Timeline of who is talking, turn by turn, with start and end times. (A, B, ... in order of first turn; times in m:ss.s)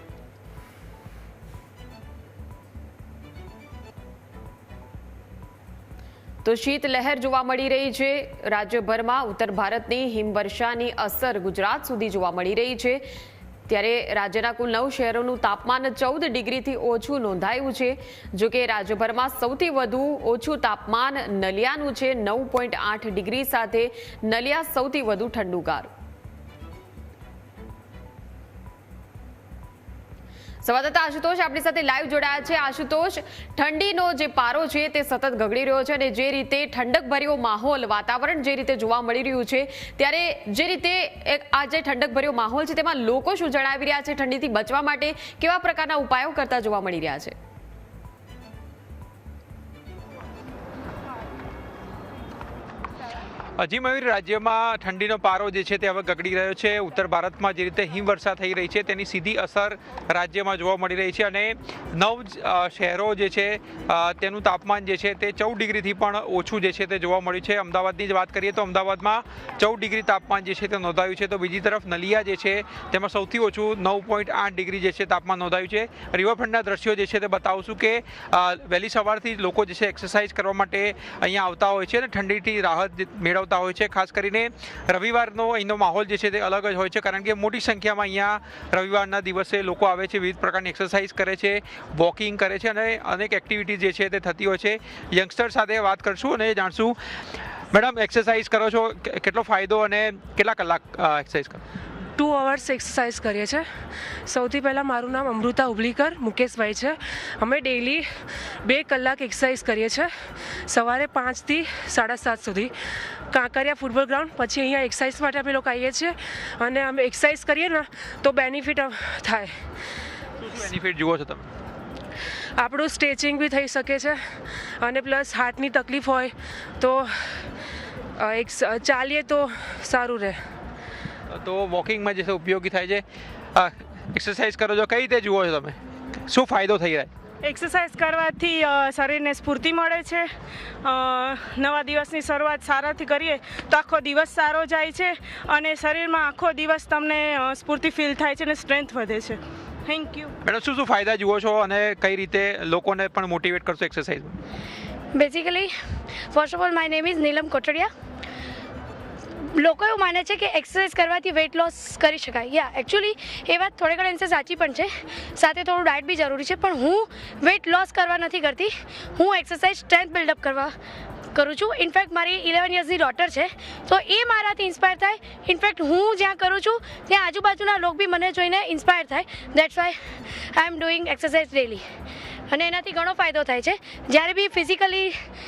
0:06.4-0:13.0 A
0:13.7-0:25.9 A
0:30.6-0:47.3 A
0:53.6-1:37.0 B
1:37.7-1:41.6 B
1:42.2-1:43.7 C
1:44.2-1:52.7 C
1:53.3-1:59.6 C
2:00.4-2:01.4 B
2:02.6-2:07.5 C
2:08.2-2:10.4 C
2:11.3-2:15.8 B
2:16.3-2:17.1 B
2:17.4-2:20.3 D
2:20.8-2:30.3 D
2:30.4-2:34.3 B
2:35.1-2:35.7 E
2:36.3-2:37.9 E
2:39.5-2:50.7 E
2:51.3-3:01.8 E
3:02.5-3:05.1 E